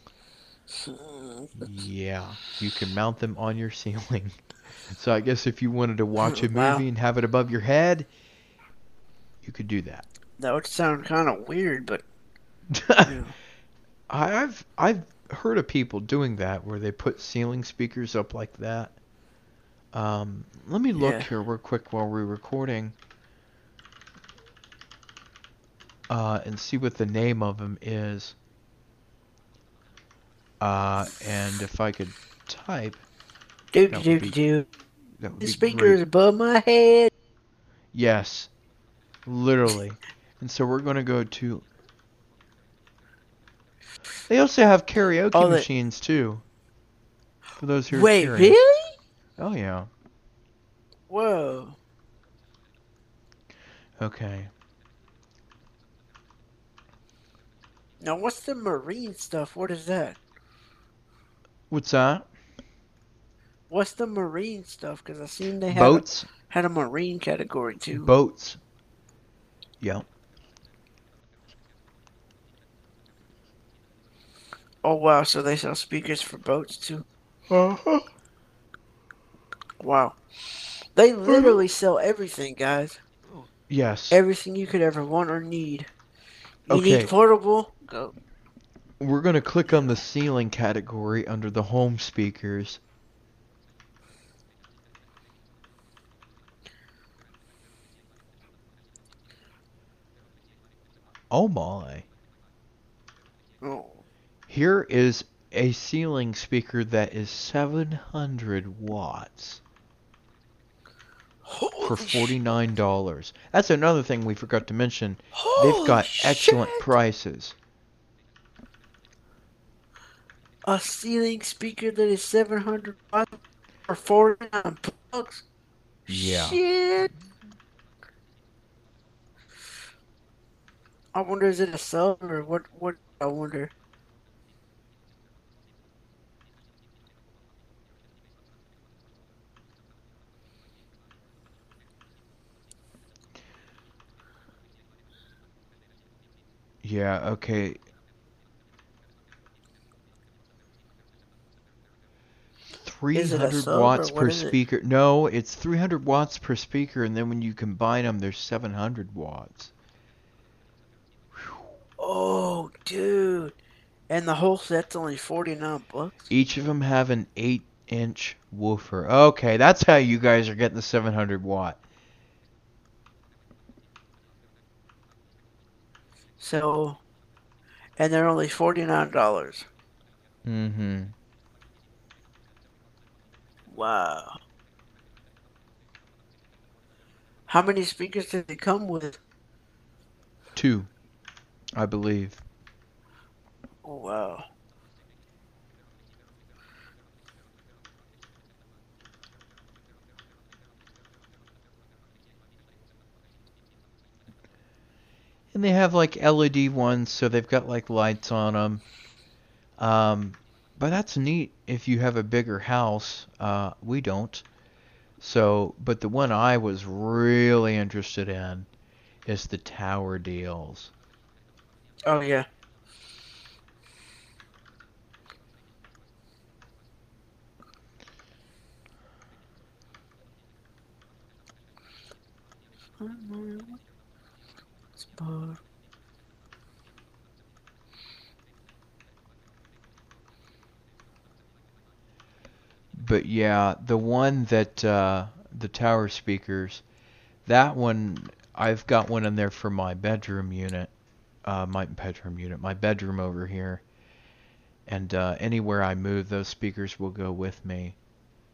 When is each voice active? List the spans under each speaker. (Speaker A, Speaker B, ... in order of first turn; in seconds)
Speaker A: 0.7-1.7, 6.2-6.8, 10.4-12.0, 13.0-13.3, 21.0-21.3, 33.7-34.6, 35.4-37.1, 45.3-45.7, 47.9-48.9, 51.1-51.8, 58.0-60.2, 63.7-68.1, 74.8-77.0, 79.8-80.2, 80.9-83.0, 84.1-85.9, 86.7-88.1, 103.6-104.0, 111.4-112.4, 115.3-116.9, 120.6-123.3, 123.9-125.4, 126.1-127.1, 131.1-133.7, 153.1-154.5, 162.0-163.5, 164.1-166.2, 176.4-177.0, 178.0-179.7, 183.7-184.4, 187.5-189.2, 193.8-194.5, 222.0-222.4, 233.0-233.8, 235.1-235.6
Speaker B: 1.6-8.1, 9.4-10.1, 12.7-13.2, 14.1-18.9, 19.9-22.9, 26.1-28.4, 30.6-33.0, 33.9-34.4, 35.2-36.0, 37.9-38.5, 39.2-41.6, 44.3-46.4, 47.6-48.6, 49.4-49.9, 54.0-54.5, 61.7-62.3, 65.7-66.3, 67.9-68.6, 69.8-70.0, 77.5-78.0, 81.2-81.6, 83.7-84.2, 86.7-87.1, 89.0-92.8, 101.3-102.1, 104.5-109.6, 111.8-117.5, 126.1-126.6, 146.8-147.8, 152.8-159.7, 161.3-161.7, 166.3-171.8, 180.4-181.1, 190.5-190.9, 191.7-192.4, 205.5-208.8, 209.8-214.4, 215.2-218.7, 219.2-220.9, 242.9-246.8, 247.4-250.9, 251.4-253.8, 254.8-258.0